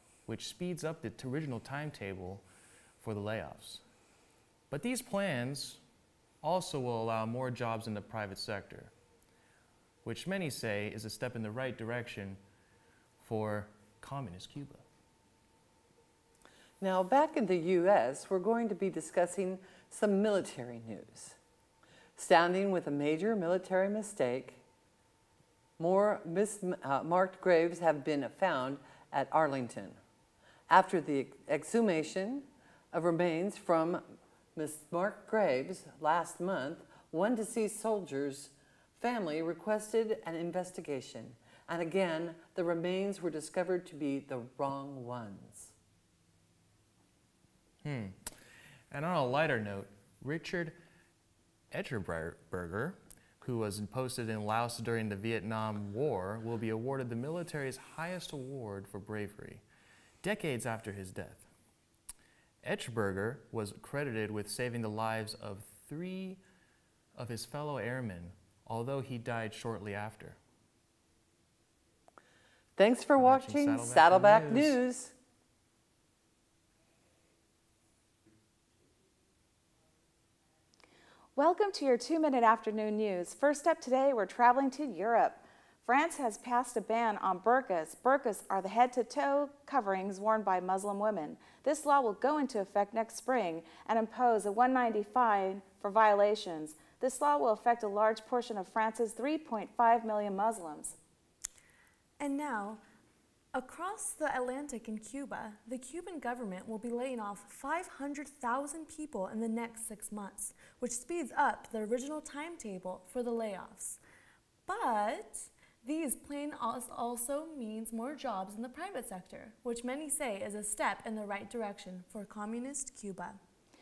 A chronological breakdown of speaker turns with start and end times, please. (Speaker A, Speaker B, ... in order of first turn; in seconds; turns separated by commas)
Speaker A: 0.3-2.5, Speaker A: 3.0-3.8, Speaker A: 4.7-5.8, Speaker A: 6.4-8.9, Speaker A: 10.0-12.4, Speaker A: 13.2-14.8, Speaker B: 16.8-21.4, Speaker B: 22.2-24.6, Speaker B: 25.8-30.0, Speaker B: 30.7-34.0, Speaker B: 34.6-45.7, Speaker A: 47.8-48.1, Speaker A: 48.9-50.8, Speaker A: 51.7-59.6, Speaker A: 60.2-61.5, Speaker A: 62.6-66.4, Speaker A: 67.2-70.4, Speaker B: 72.8-75.1, Speaker A: 73.2-74.8, Speaker C: 81.4-101.0, Speaker D: 102.2-102.8, Speaker D: 103.5-114.0, Speaker D: 114.7-123.4